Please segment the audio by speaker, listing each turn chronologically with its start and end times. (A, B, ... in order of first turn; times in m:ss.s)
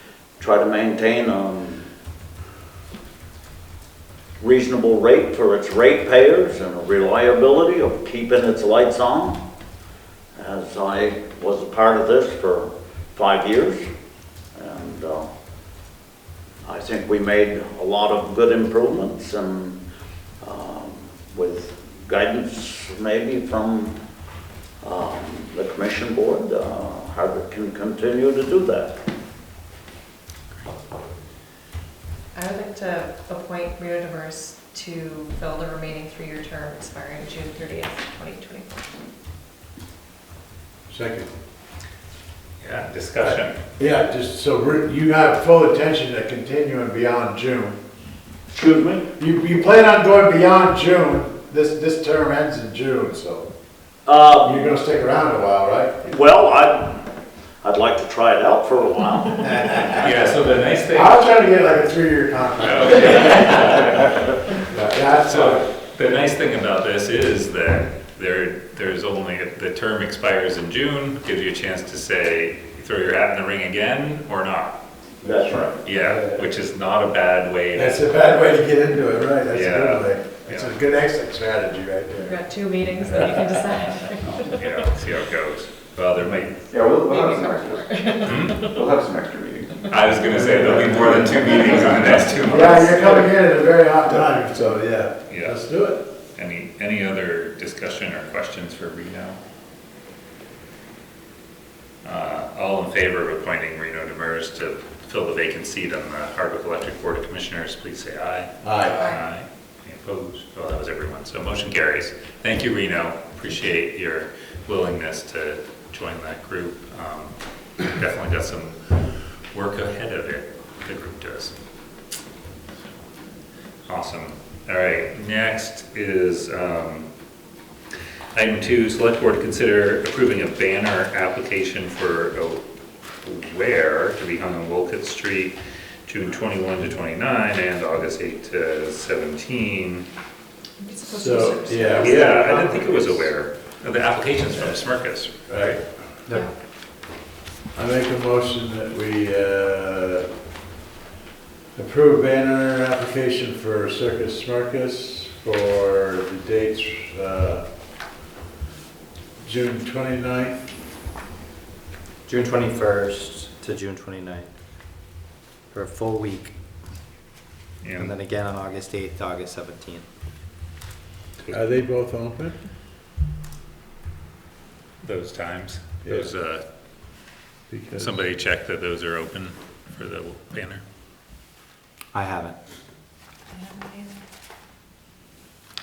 0:00.4-0:01.9 A
0:04.4-0:09.4 A
0:10.4-0:13.8 A
0:14.5-0:15.3 A
0:16.6-0:19.8 A
0:20.4-0:23.9 A
0:24.8-0:29.0 A
0:32.3-0:38.8 B
0:40.9-0:41.3 C
0:42.6-0:43.6 D
0:43.2-0:47.8 C
0:48.5-0:49.1 A
0:49.2-0:53.5 C
0:54.0-0:54.6 A
0:54.4-0:56.0 C
0:56.0-0:57.1 A
0:57.6-1:00.3 A
1:00.0-1:01.2 D
1:00.9-1:05.7 C
1:02.6-1:04.4 D
1:05.2-1:14.8 D
1:15.2-1:16.4 C
1:15.4-1:15.7 E
1:15.8-1:18.1 D
1:17.7-1:22.4 C
1:19.5-1:20.7 D
1:22.2-1:24.7 B
1:23.0-1:23.4 C
1:24.4-1:26.7 D
1:26.7-1:29.8 E
1:27.1-1:28.9 B
1:28.2-1:28.8 D
1:29.9-1:33.2 D
1:30.3-1:31.2 C
1:30.4-1:31.4 E
1:31.6-1:31.9 B
1:32.5-1:36.0 C
1:32.5-1:33.0 B
1:35.3-1:35.6 D
1:36.3-1:39.4 D
1:42.0-2:01.6 D
1:48.6-1:49.1 C
1:49.0-1:49.2 B
2:03.8-2:07.1 D
2:08.3-2:12.6 D
2:13.2-2:20.1 D
2:20.8-2:22.4 B
2:21.0-2:23.3 C
2:22.0-2:25.8 D
2:25.5-2:25.8 C
2:27.7-2:30.3 C
2:31.7-2:37.6 C
2:39.4-2:40.6 C
2:42.2-2:44.5 F
2:45.7-2:46.6 F
2:47.8-2:48.1 D
2:48.0-2:50.1 F
2:51.5-2:52.6 C
2:55.0-2:56.6 D
2:56.0-2:56.3 C
2:57.7-2:58.1 C
2:57.9-3:00.8 D
3:02.1-3:02.6 F
3:03.5-3:04.2 B